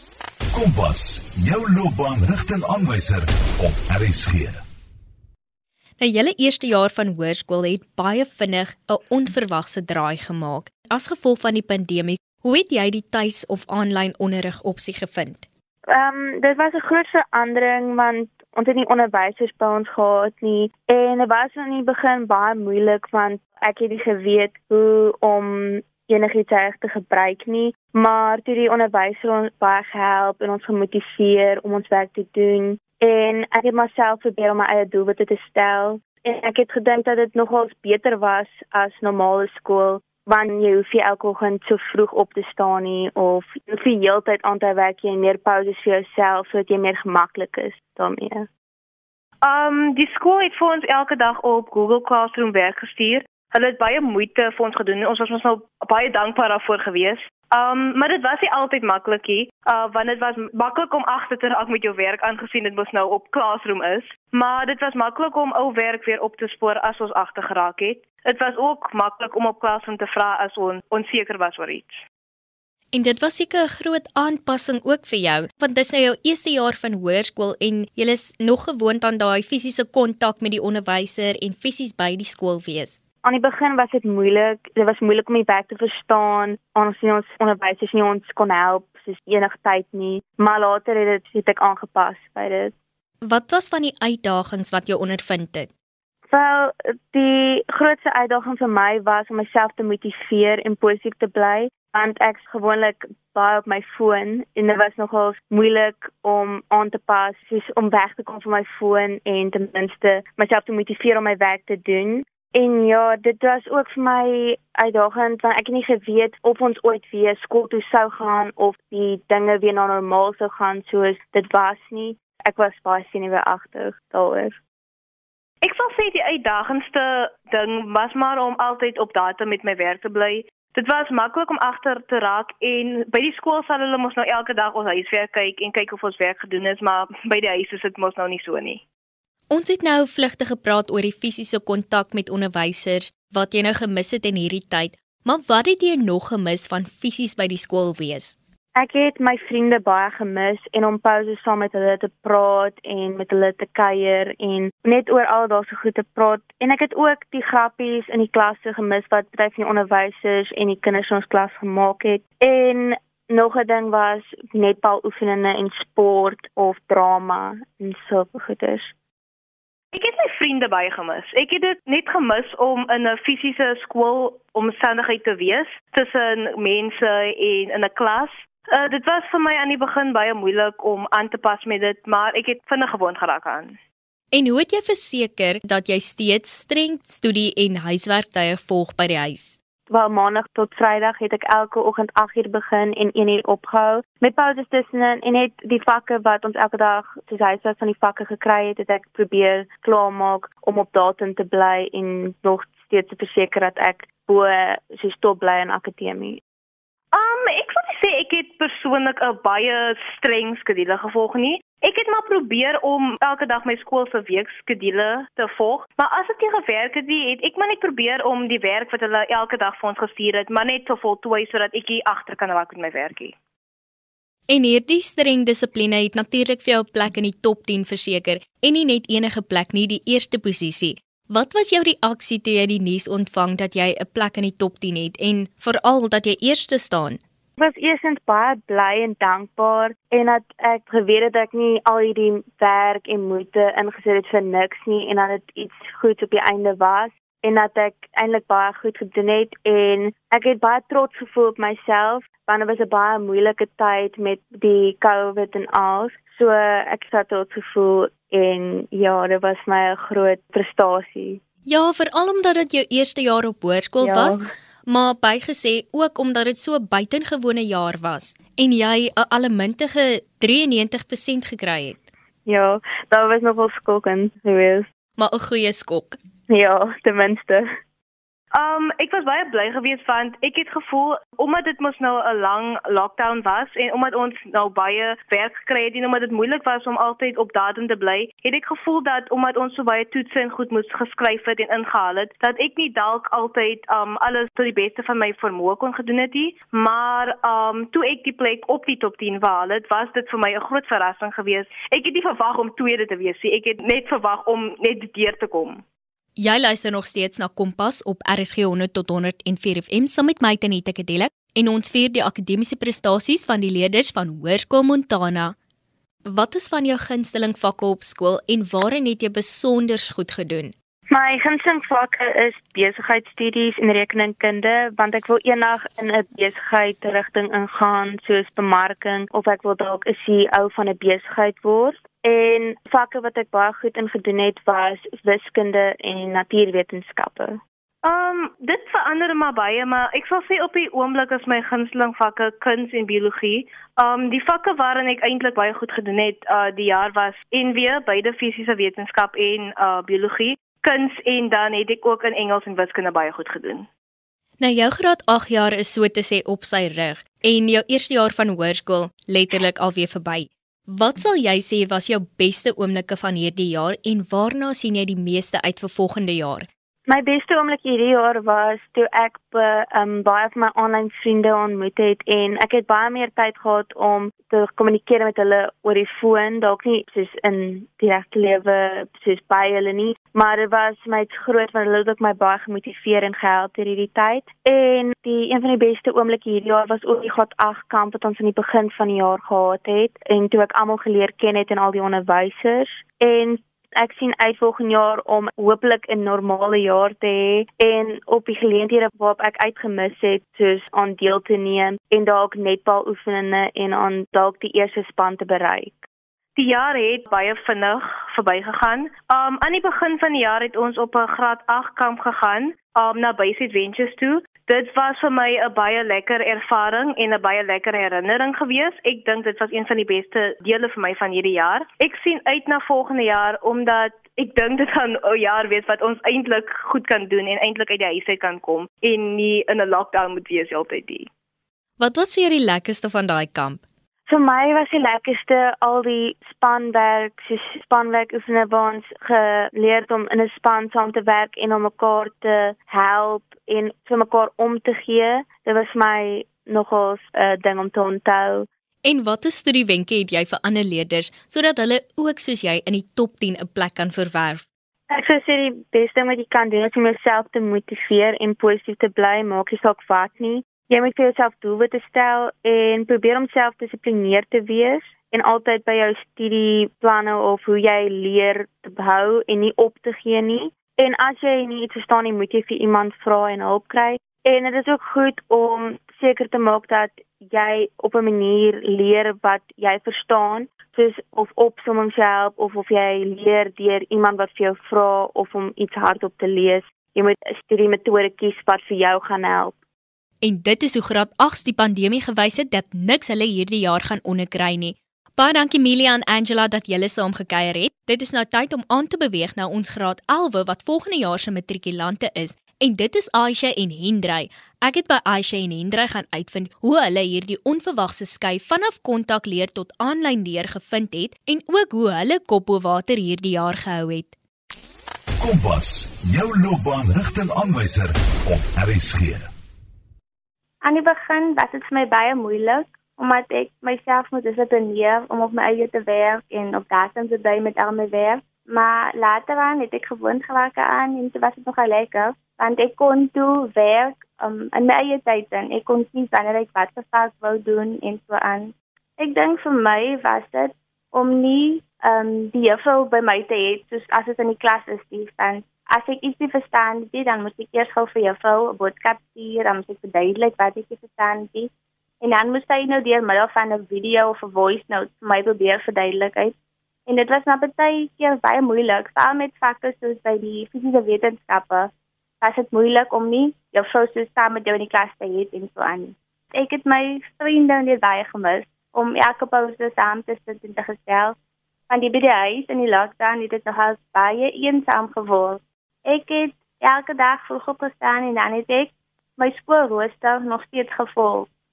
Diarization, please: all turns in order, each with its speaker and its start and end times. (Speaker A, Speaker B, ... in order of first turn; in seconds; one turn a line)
Speaker A: 0.5-4.6
Speaker B: 6.0-15.4
Speaker C: 15.9-48.5
Speaker D: 49.4-72.0
Speaker B: 72.9-83.0
Speaker C: 83.2-92.7
Speaker B: 93.2-95.7
Speaker C: 96.3-124.6
Speaker D: 125.6-138.8
Speaker B: 139.5-148.3
Speaker C: 148.8-168.9
Speaker D: 169.9-183.8
Speaker B: 184.3-189.6
Speaker C: 189.9-206.4
Speaker D: 207.1-223.3
Speaker B: 224.5-237.2
Speaker C: 237.6-261.4
Speaker B: 261.6-272.0
Speaker C: 264.0-264.5
Speaker C: 272.4-274.9
Speaker B: 275.2-276.2
Speaker C: 276.5-277.6
Speaker D: 278.5-305.8
Speaker B: 306.4-315.6
Speaker B: 316.2-320.7
Speaker C: 321.1-337.6
Speaker D: 338.0-353.9
Speaker B: 354.6-366.7
Speaker C: 367.1-406.1
Speaker D: 406.6-431.3
Speaker B: 432.0-433.8
Speaker C: 434.3-448.7
Speaker B: 449.0-454.6
Speaker C: 455.1-489.8
Speaker B: 490.4-514.3
Speaker A: 515.4-519.5
Speaker E: 520.8-551.7
Speaker E: 552.2-556.5
Speaker E: 557.0-571.4
Speaker E: 571.9-581.5